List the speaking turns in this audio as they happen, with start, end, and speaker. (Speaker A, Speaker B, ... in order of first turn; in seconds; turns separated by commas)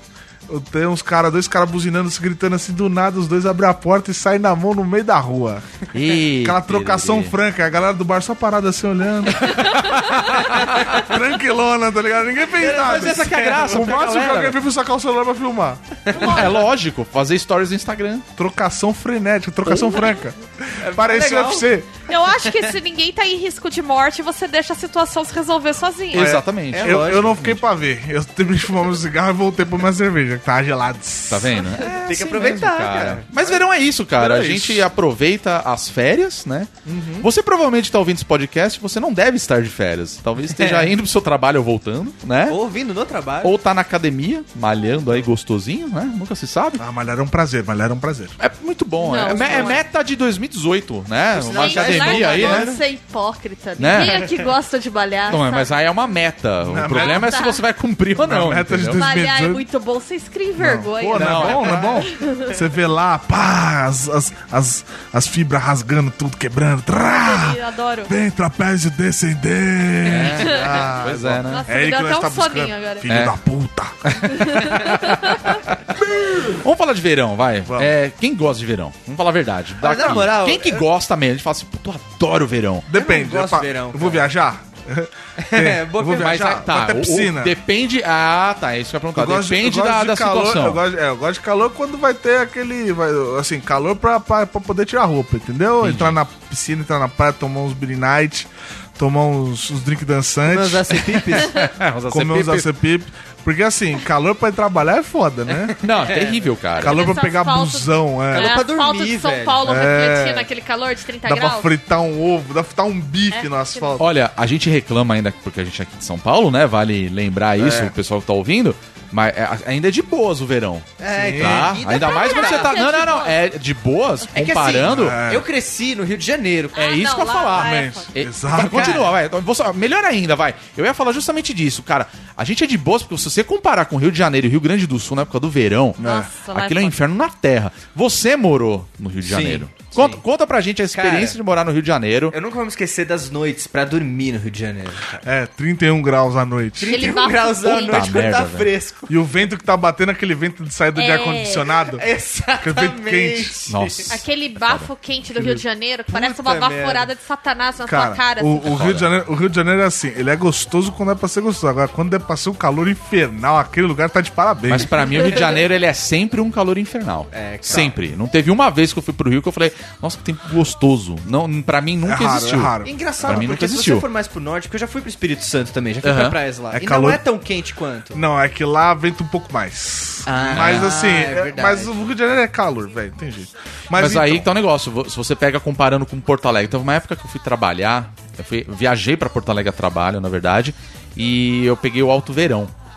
Speaker A: 0.5-5.7, Speaker B: 5.9-7.3, Speaker A: 6.4-15.8, Speaker B: 10.1-10.9, Speaker C: 12.6-14.0, Speaker B: 12.8-14.6, Speaker C: 16.1-16.6, Speaker B: 16.2-18.2, Speaker A: 18.4-21.9, Speaker C: 19.7-20.0, Speaker C: 20.8-21.7, Speaker D: 22.1-26.4, Speaker B: 26.1-27.6, Speaker C: 26.7-27.4, Speaker A: 26.8-31.7, Speaker B: 31.3-36.7, Speaker C: 32.0-33.5, Speaker A: 34.2-34.9, Speaker A: 36.9-37.3, Speaker B: 37.2-42.6, Speaker C: 40.6-40.9, Speaker C: 42.5-43.5, Speaker B: 43.4-46.8, Speaker A: 46.8-48.4, Speaker B: 48.4-52.7, Speaker D: 49.0-49.8, Speaker C: 49.3-49.8, Speaker C: 51.3-52.8, Speaker D: 51.5-55.7, Speaker B: 53.8-54.3, Speaker B: 55.3-59.0, Speaker A: 56.6-57.4, Speaker D: 57.0-57.6, Speaker A: 58.2-59.6, Speaker D: 59.0-62.5, Speaker A: 60.6-74.2, Speaker B: 61.1-62.0, Speaker D: 67.1-68.1, Speaker B: 70.0-71.7, Speaker D: 70.3-70.8, Speaker D: 71.5-73.1, Speaker B: 73.1-73.3, Speaker B: 74.0-82.9, Speaker D: 74.3-75.6, Speaker A: 76.1-76.6, Speaker A: 77.7-77.9, Speaker C: 79.8-80.8, Speaker A: 82.9-87.6, Speaker C: 82.9-84.3, Speaker C: 85.4-86.4, Speaker B: 86.0-90.8, Speaker A: 89.1-101.1, Speaker B: 95.8-96.2, Speaker C: 100.5-101.6, Speaker B: 101.5-102.7, Speaker A: 102.1-105.8, Speaker B: 105.8-107.0, Speaker C: 105.9-106.5, Speaker A: 106.8-108.6, Speaker D: 106.8-111.7, Speaker C: 108.3-109.6, Speaker A: 109.6-110.5, Speaker A: 111.2-114.1, Speaker D: 113.3-114.0, Speaker B: 114.0-125.2, Speaker A: 117.6-118.0, Speaker C: 121.0-122.8, Speaker A: 121.1-121.8, Speaker D: 121.9-123.4, Speaker C: 124.3-126.8, Speaker A: 124.9-125.5, Speaker D: 126.8-128.1, Speaker B: 126.8-142.3, Speaker A: 127.5-129.1, Speaker C: 128.5-129.1, Speaker A: 136.0-136.3, Speaker D: 136.0-137.0, Speaker C: 139.2-140.2, Speaker C: 140.9-141.4, Speaker C: 142.3-145.2, Speaker A: 145.2-147.1, Speaker C: 146.8-149.2, Speaker D: 146.9-148.1, Speaker B: 147.7-148.7, Speaker A: 149.1-152.1, Speaker D: 150.9-151.7, Speaker C: 151.9-154.1, Speaker A: 152.6-153.6, Speaker B: 153.7-154.9, Speaker D: 154.1-158.8, Speaker C: 156.1-157.1, Speaker A: 157.9-165.3, Speaker B: 158.7-159.1, Speaker B: 164.7-174.1, Speaker C: 167.3-167.9, Speaker A: 167.7-167.9, Speaker A: 172.0-173.5, Speaker C: 172.8-178.2, Speaker B: 176.0-176.4, Speaker A: 176.7-177.2, Speaker A: 178.1-184.5, Speaker C: 180.3-182.0, Speaker B: 180.4-181.0, Speaker B: 183.9-192.7